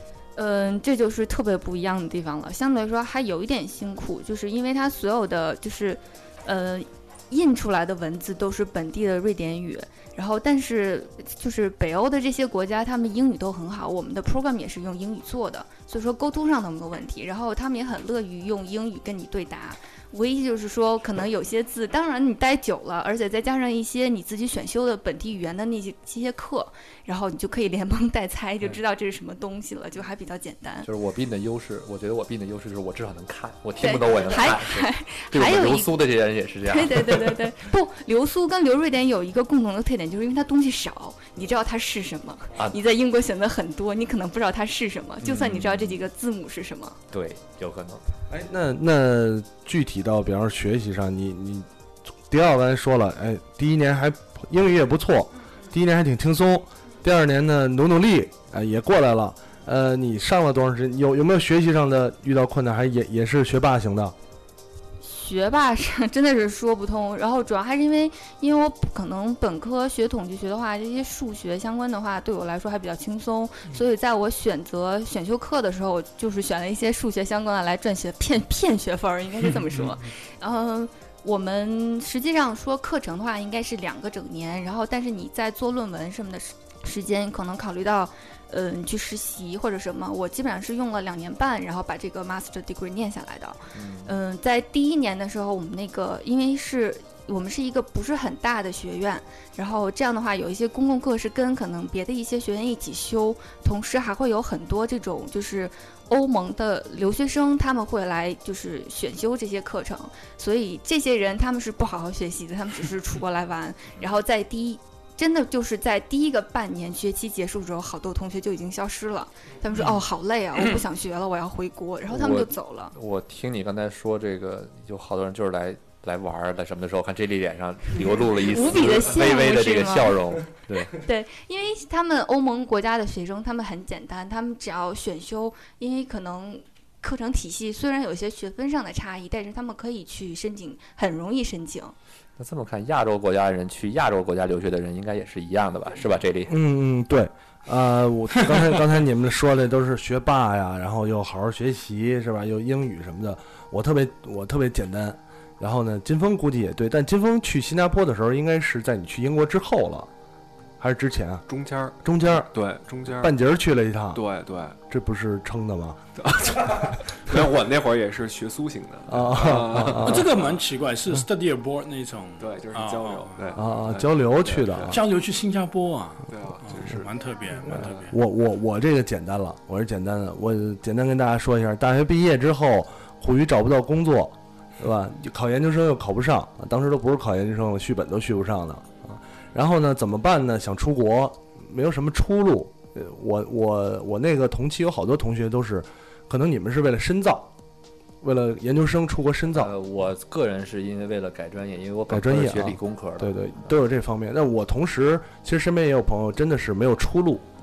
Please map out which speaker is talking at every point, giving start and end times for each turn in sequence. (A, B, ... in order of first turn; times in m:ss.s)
0:00.4-0:30.9 A
0:30.8-0:37.5 B
0:33.8-0:36.0 A
0:36.7-0:47.0 A
0:45.2-0:46.0 B
0:47.1-0:48.0 B
0:48.3-0:51.7 C
0:52.3-1:04.2 C
1:05.0-2:02.9 A
1:33.7-1:34.1 B
2:02.1-2:10.9 B
2:08.3-2:10.2 A
2:10.9-2:21.9 A
2:22.4-2:26.6 B
2:26.5-2:40.1 C
2:40.8-2:41.4 C
2:41.5-2:43.4 D
2:42.0-2:42.5 C
2:43.1-2:44.2 C
2:44.1-2:44.8 D
2:44.9-2:46.0 C
2:46.2-2:50.6 D
2:46.6-2:46.8 C
2:49.1-2:50.3 C
2:49.8-2:53.6 E
2:52.4-2:55.0 D
2:53.6-2:55.0 C
2:54.9-2:58.2 E
2:56.3-2:57.0 D
2:57.7-3:17.5 C
3:18.2-3:19.7 C
3:19.6-3:23.3 B
3:22.1-3:27.5 C